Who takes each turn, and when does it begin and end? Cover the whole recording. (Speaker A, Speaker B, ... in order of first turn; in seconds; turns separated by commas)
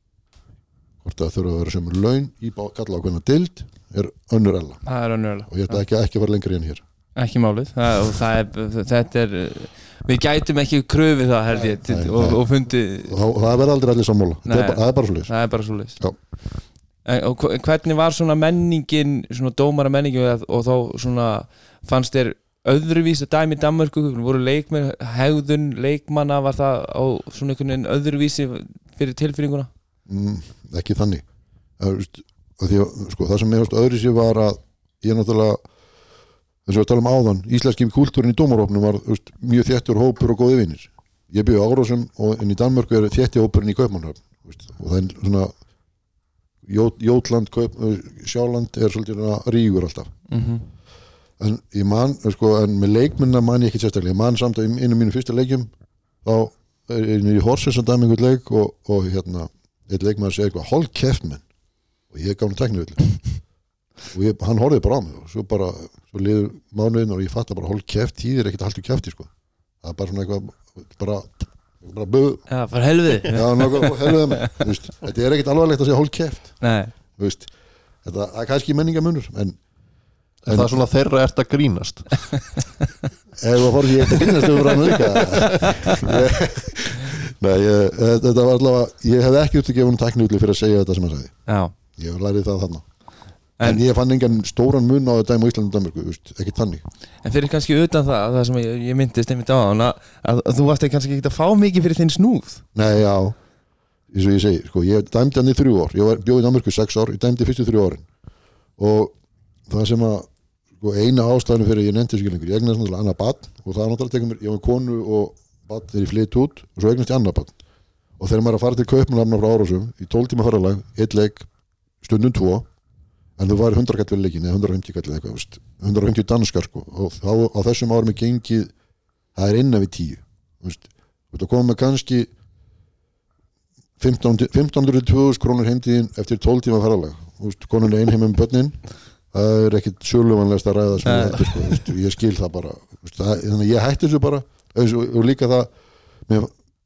Speaker A: 1.0-4.8, Speaker B: 4.9-5.8, Speaker A: 5.5-6.8, Speaker B: 7.2-13.2, Speaker A: 11.6-12.4, Speaker A: 13.1-15.3, Speaker B: 14.5-16.0, Speaker B: 17.1-29.7, Speaker A: 30.1-31.2, Speaker A: 31.8-35.6, Speaker A: 36.7-45.5, Speaker A: 46.6-50.1, Speaker B: 50.3-50.7, Speaker A: 51.4-55.7, Speaker A: 56.2-61.4, Speaker A: 62.1-63.2, Speaker A: 64.1-69.3, Speaker A: 69.8-72.5, Speaker B: 72.5-74.6, Speaker A: 73.3-76.6, Speaker B: 76.6-76.9, Speaker A: 77.2-77.5, Speaker A: 78.0-79.6, Speaker C: 80.5-82.5, Speaker A: 80.5-80.8, Speaker A: 83.4-91.3, Speaker B: 85.2-86.0, Speaker B: 91.5-91.7, Speaker A: 92.0-92.8, Speaker A: 93.6-96.8, Speaker B: 97.2-102.6, Speaker A: 102.8-103.4, Speaker A: 104.1-108.1, Speaker A: 108.8-109.1, Speaker A: 109.7-117.6, Speaker A: 118.2-121.5, Speaker A: 122.0-122.7, Speaker A: 123.4-128.7, Speaker A: 129.3-132.3, Speaker A: 134.0-138.8, Speaker A: 139.3-145.7, Speaker B: 141.0-141.8